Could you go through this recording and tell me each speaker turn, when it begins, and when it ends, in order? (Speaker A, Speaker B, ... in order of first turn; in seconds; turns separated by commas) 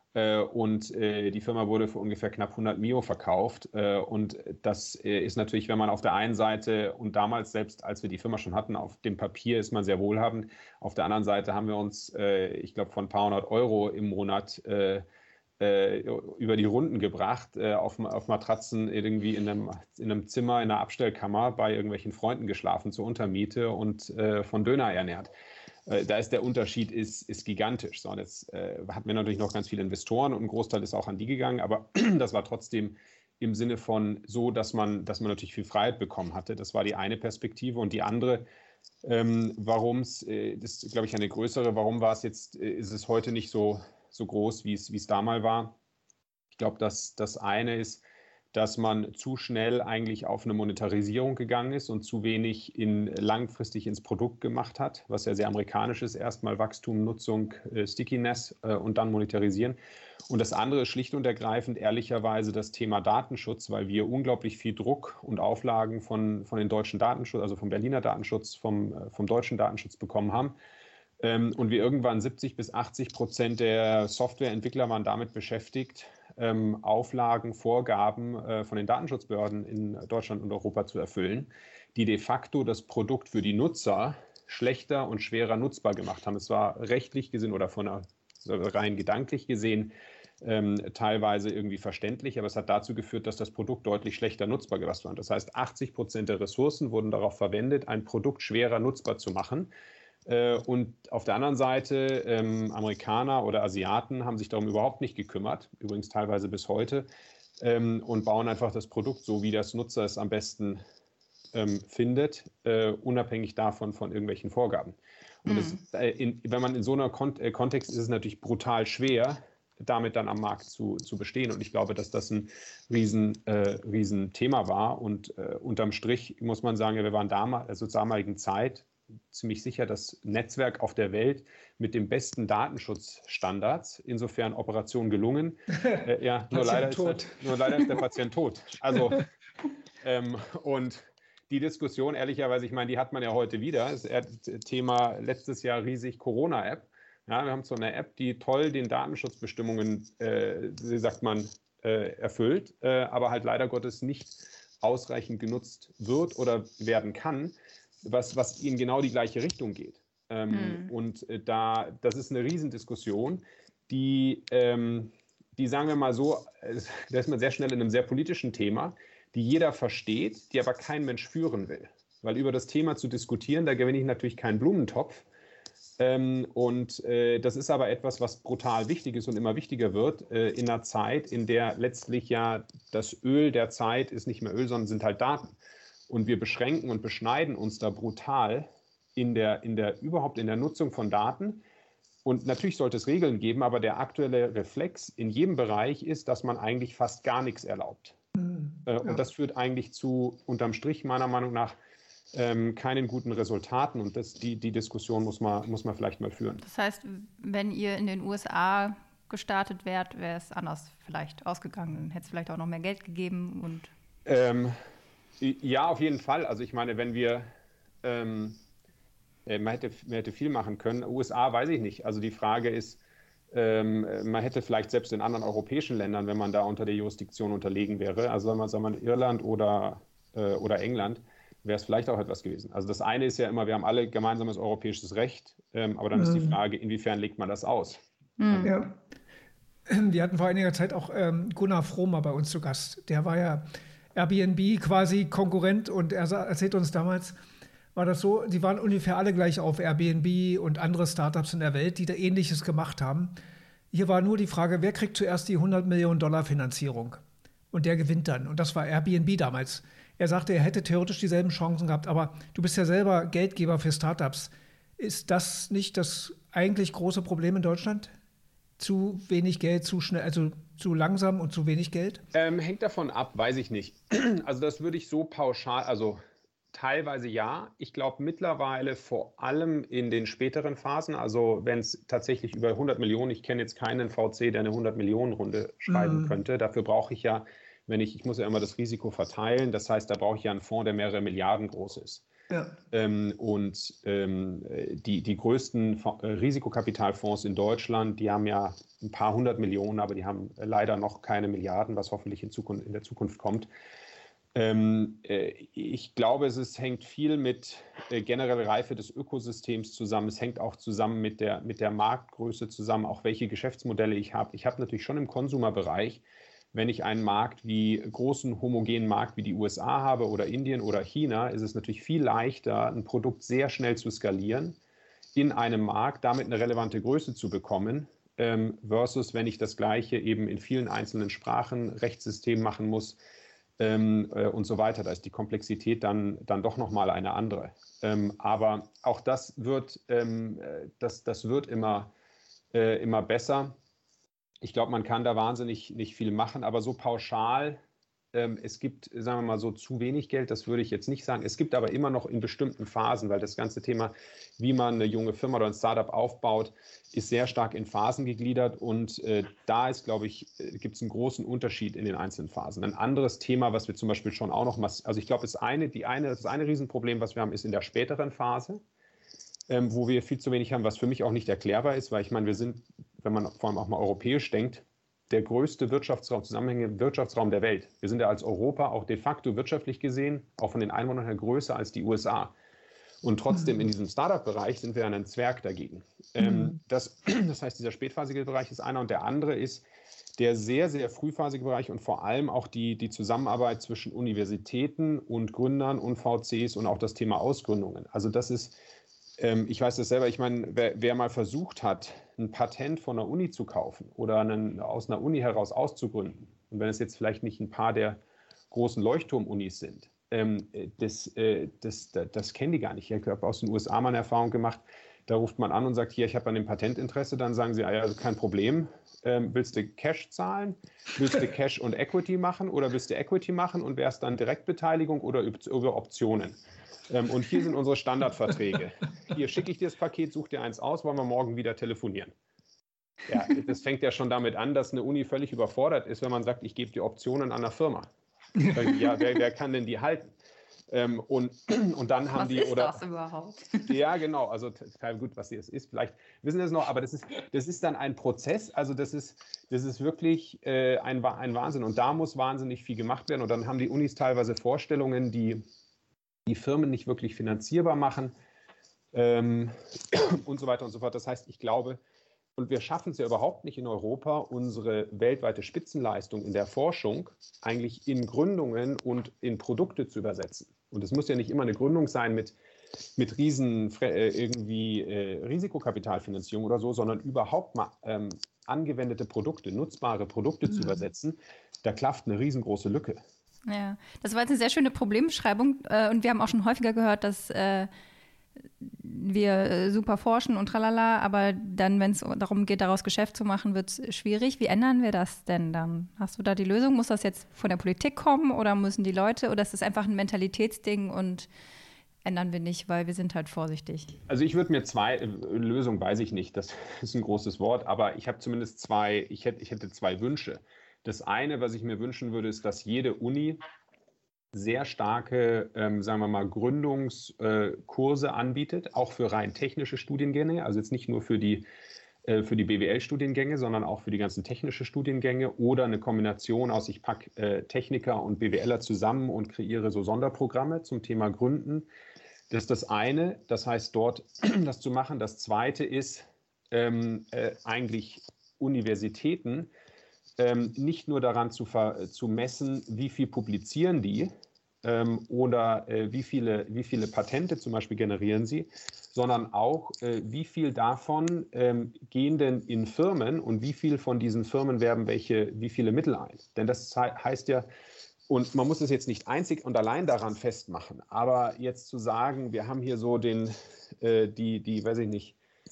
Speaker A: 0.1-15.1, Speaker A: 15.6-25.3, Speaker A: 25.9-38.5, Speaker A: 39.0-45.8, Speaker A: 46.5-70.5, Speaker A: 71.2-99.7, Speaker A: 100.3-107.1, Speaker A: 107.6-110.8, Speaker A: 111.5-139.3, Speaker B: 115.5-115.8, Speaker C: 135.9-138.0, Speaker A: 140.0-175.2, Speaker B: 160.5-160.9, Speaker A: 176.0-185.5, Speaker A: 186.1-191.6, Speaker A: 192.2-198.2, Speaker C: 198.4-199.2, Speaker A: 198.9-201.7, Speaker A: 202.3-206.6, Speaker B: 206.6-213.9, Speaker A: 214.3-214.8, Speaker A: 215.4-217.5, Speaker A: 218.0-218.6, Speaker A: 219.5-238.7, Speaker C: 236.2-236.6, Speaker B: 238.4-238.7, Speaker C: 238.6-239.0, Speaker C: 239.9-247.4, Speaker C: 247.9-253.3, Speaker C: 253.9-257.2, Speaker C: 257.7-268.1, Speaker C: 268.8-272.2, Speaker A: 272.3-276.2, Speaker A: 276.7-292.3, Speaker C: 285.9-286.4, Speaker C: 292.5-292.8, Speaker A: 292.9-303.7, Speaker A: 304.6-324.8, Speaker A: 325.4-333.2, Speaker A: 333.8-342.1, Speaker A: 342.7-343.8, Speaker A: 344.6-347.8, Speaker A: 348.3-368.8, Speaker A: 369.7-382.5, Speaker A: 383.2-398.8, Speaker C: 386.5-386.8, Speaker A: 399.4-408.2, Speaker A: 408.7-426.6, Speaker A: 427.1-432.3, Speaker A: 433.3-438.1, Speaker A: 438.6-440.3, Speaker A: 440.9-443.0, Speaker B: 442.4-443.9, Speaker A: 443.9-455.6, Speaker A: 456.5-458.3, Speaker A: 459.1-462.0, Speaker A: 462.6-472.6, Speaker A: 473.2-483.2, Speaker B: 483.7-487.9, Speaker B: 488.8-501.5, Speaker B: 502.2-504.2, Speaker A: 504.3-513.6, Speaker A: 514.5-521.6, Speaker A: 522.2-531.9, Speaker A: 532.5-539.7, Speaker A: 540.4-544.3, Speaker A: 544.8-557.7, Speaker A: 558.3-565.4